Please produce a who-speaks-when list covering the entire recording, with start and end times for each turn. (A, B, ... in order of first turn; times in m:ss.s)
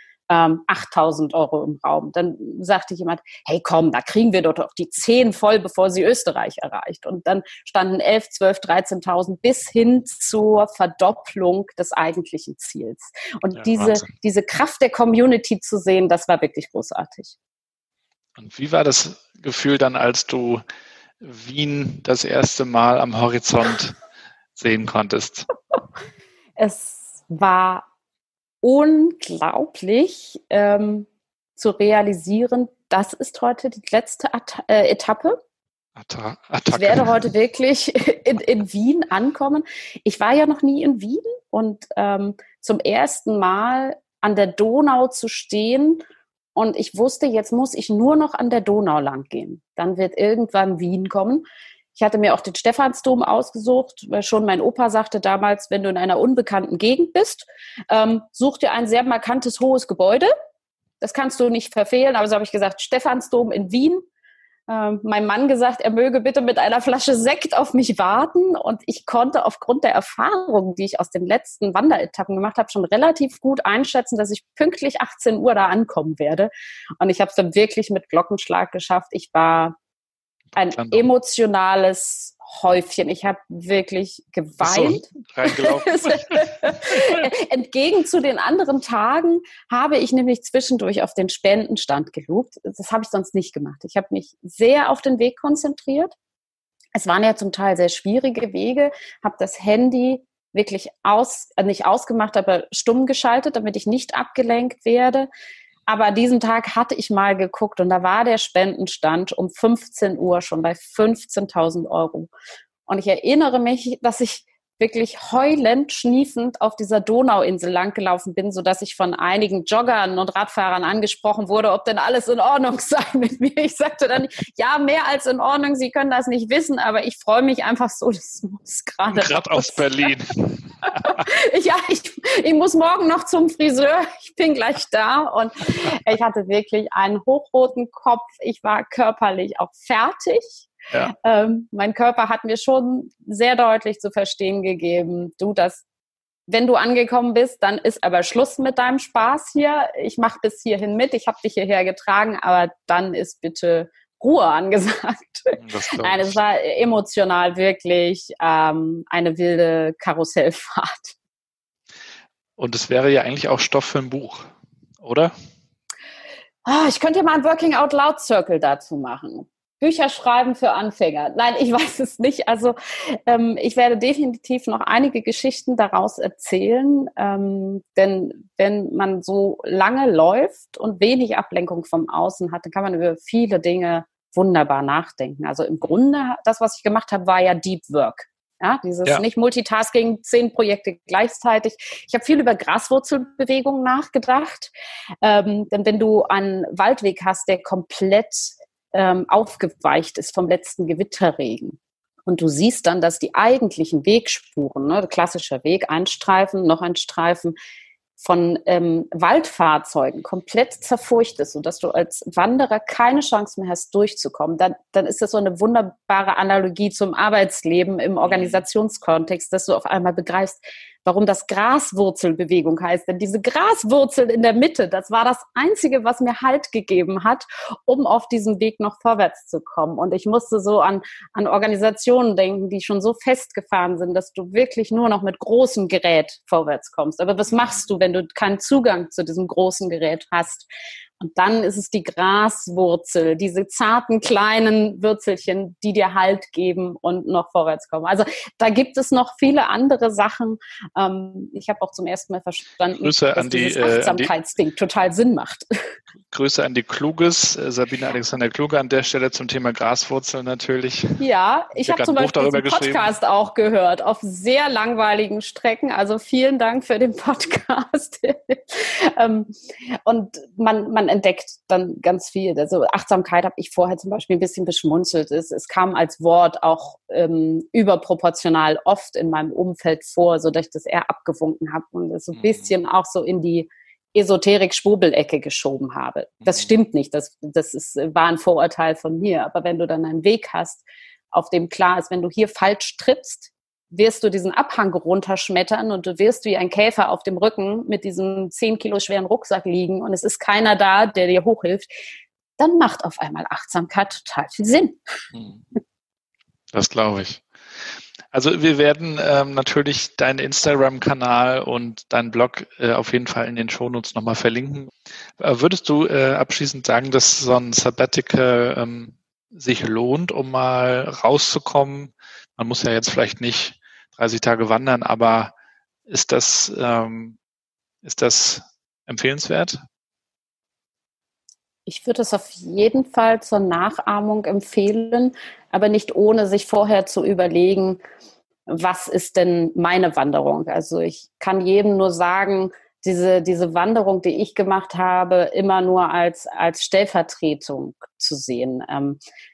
0:00.3-0:17.3 A
0:13.6-0:14.1 B
0:18.4-0:20.6 B
0:21.2-0:24.0 B
0:24.6-0:25.5 B
0:26.6-0:27.9 A
0:28.6-0:35.4 A
0:36.0-0:37.2 B
0:36.7-0:46.0 A
0:46.6-0:51.4 A
0:52.0-1:00.3 A
1:01.0-1:04.0 A
1:04.7-1:19.8 A
1:20.5-1:21.1 B
1:20.6-1:36.1 A
1:24.6-1:27.1 B
1:37.0-1:45.3 A
1:45.9-1:52.3 A
1:52.9-2:09.9 A
2:09.1-2:11.2 B
2:11.0-2:25.8 A
2:26.5-2:41.2 A
2:35.6-2:36.4 B
2:42.6-2:44.5 B
2:45.0-2:45.3 B
2:46.6-3:14.7 A
3:15.2-3:27.6 A
3:28.2-4:00.7 A
3:38.3-3:38.6 B
4:01.2-4:15.7 A
4:13.0-4:14.3 B
4:16.3-4:21.2 B
4:21.2-5:01.9 A
4:21.8-4:23.1 B
4:42.4-4:42.7 B
5:02.6-5:05.0 A
5:05.3-5:05.6 B
5:06.7-5:07.4 B
5:08.3-5:25.5 B
5:26.1-5:27.4 B
5:28.0-5:29.8 B
5:31.9-5:38.0 A
5:38.7-5:49.2 A